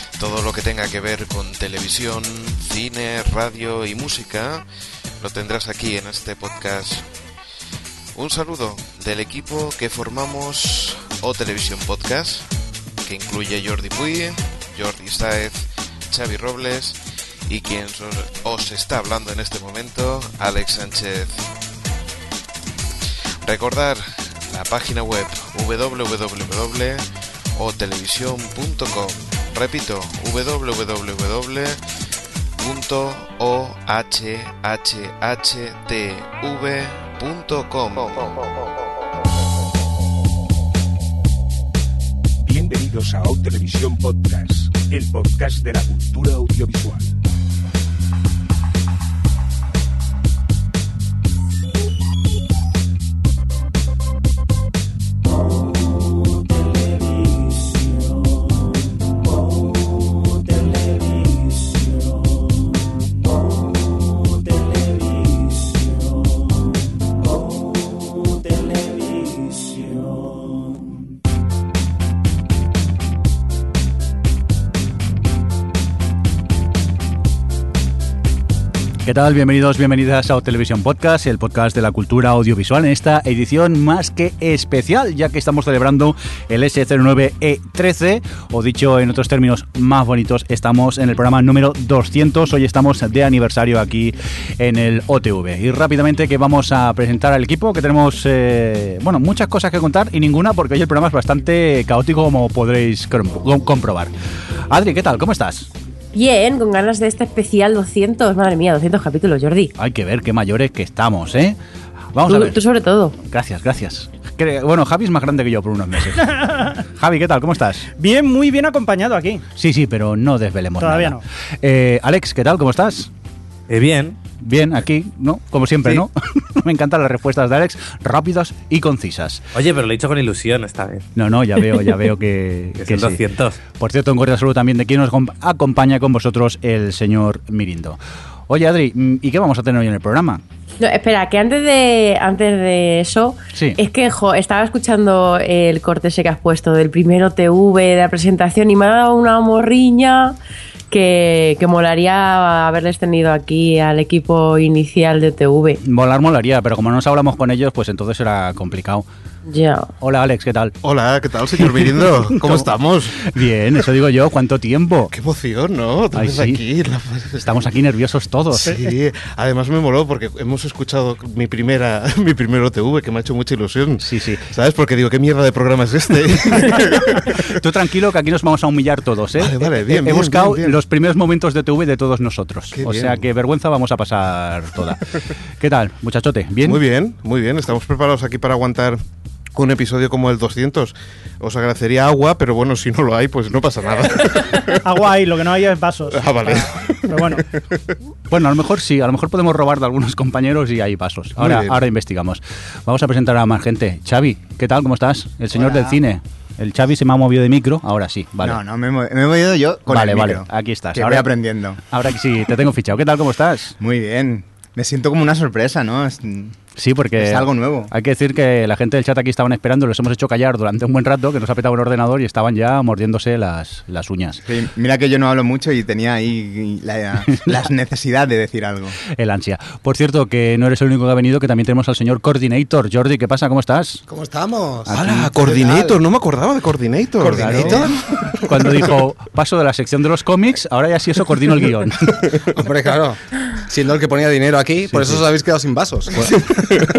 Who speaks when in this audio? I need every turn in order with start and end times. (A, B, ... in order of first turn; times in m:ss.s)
0:00.2-0:04.6 A
0:05.2-0:07.1 A
0:08.1-0:12.5 A
0:13.0-0:21.5 A
0:23.4-0:27.0 A
0:27.6-0:31.8 A
0:32.6-0:38.3 A
0:42.4-0:47.2 B
1:19.0-1:44.1 C
1:44.7-1:45.7 C
1:46.1-1:49.7 D
1:49.8-1:51.6 C
1:52.1-1:52.6 C
1:52.2-1:53.2 D
1:53.3-1:57.9 C
1:56.2-1:56.8 E
1:58.0-1:59.4 E
1:59.6-2:03.1 C
2:00.8-2:01.2 E
2:03.7-2:04.2 F
2:04.4-2:09.4 C
2:09.5-2:11.1 F
2:11.2-2:13.2 C
2:12.8-2:13.6 F
2:13.8-2:20.4 C
2:20.8-2:30.4 D
2:30.9-2:35.8 D
2:35.8-2:39.0 C
2:39.5-2:39.9 D
2:40.0-2:40.8 C
2:40.8-2:43.3 G
2:41.6-2:45.1 C
2:45.1-2:47.5 G
2:46.1-2:46.6 C
2:47.4-2:48.8 C
2:48.6-2:57.5 G
2:48.6-2:48.9 E
2:54.0-2:54.4 C
2:57.3-3:05.0 C
2:59.4-3:00.8 G
3:02.7-3:03.2 G
3:05.6-3:06.8 C
3:06.6-3:09.0 G
3:09.5-3:14.8 G
3:14.8-3:17.4 E
3:16.1-3:17.8 G
3:18.3-3:28.6 C
3:21.4-3:21.8 G
3:25.5-3:26.0 H
3:28.4-3:31.8 H
3:29.9-3:31.3 C
3:31.9-3:33.7 C
3:33.8-3:36.6 H
3:36.8-3:44.4 C
3:37.2-3:37.9 H
3:44.4-3:49.0 H
3:49.1-3:54.0 C
3:54.1-3:56.0 I
3:54.9-3:55.3 C
3:54.9-3:57.9 G
3:57.2-3:58.5 I
3:57.3-3:57.9 C
3:58.4-4:02.1 C
4:02.5-4:06.5 I
4:04.9-4:05.2 C